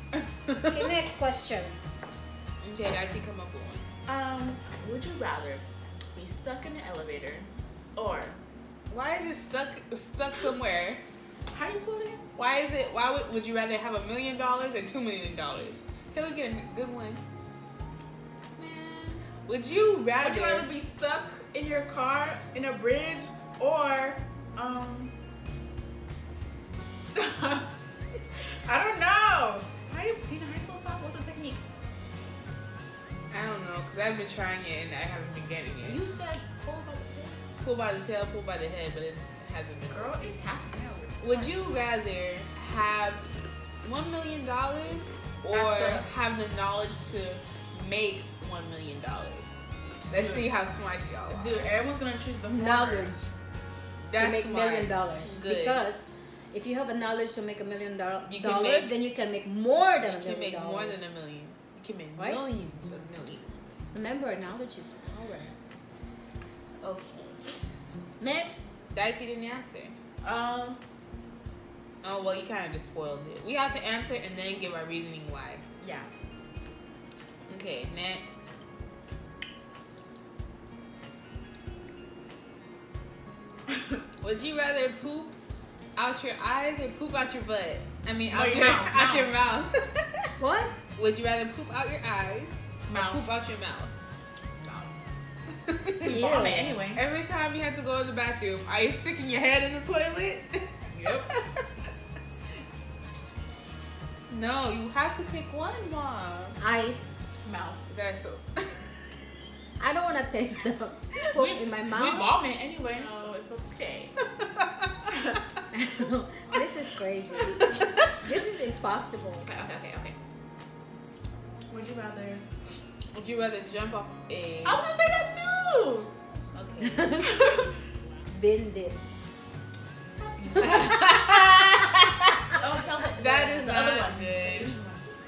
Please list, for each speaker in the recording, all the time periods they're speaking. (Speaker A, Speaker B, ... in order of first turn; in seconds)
Speaker A: 0.1-0.8, 2.6-3.9, 8.9-11.0, 12.4-17.2, 19.2-20.7, 33.3-36.0, 37.6-40.3, 41.2-43.3, 43.8-49.6, 50.1-51.8, 54.0-55.8, 58.3-58.9, 60.0-63.6, 66.8-67.5, 68.9-70.0, 72.0-75.6, 77.5-78.4, 84.2-85.4, 86.0-90.3, 91.0-93.9, 95.5-96.2, 96.9-101.7, 104.3-106.6, 107.9-109.1, 114.4-114.9, 123.1-124.8, 126.5-127.2, 130.6-132.6, 133.2-134.7
Speaker B: 0.7-1.8, 52.5-53.2, 54.1-61.0, 63.9-65.5, 68.2-68.6, 90.4-90.8, 96.0-96.8, 106.6-107.1, 109.8-112.4, 115.7-119.5, 128.3-129.0
Speaker C: 4.1-8.4, 11.5-12.3, 18.6-19.1, 20.2-25.1, 27.0-27.7, 28.4-31.6, 35.8-37.4, 39.9-41.6, 45.5-46.2, 50.1-50.5, 51.3-53.1, 70.2-70.8, 75.8-76.1, 83.7-84.0, 88.3-89.4, 92.9-93.2, 94.6-94.9, 96.0-97.0, 100.9-101.3, 107.5-107.8, 111.3-114.1, 119.5-120.2, 121.7-122.5, 124.7-126.1, 127.0-127.7, 130.2-131.2, 132.5-135.1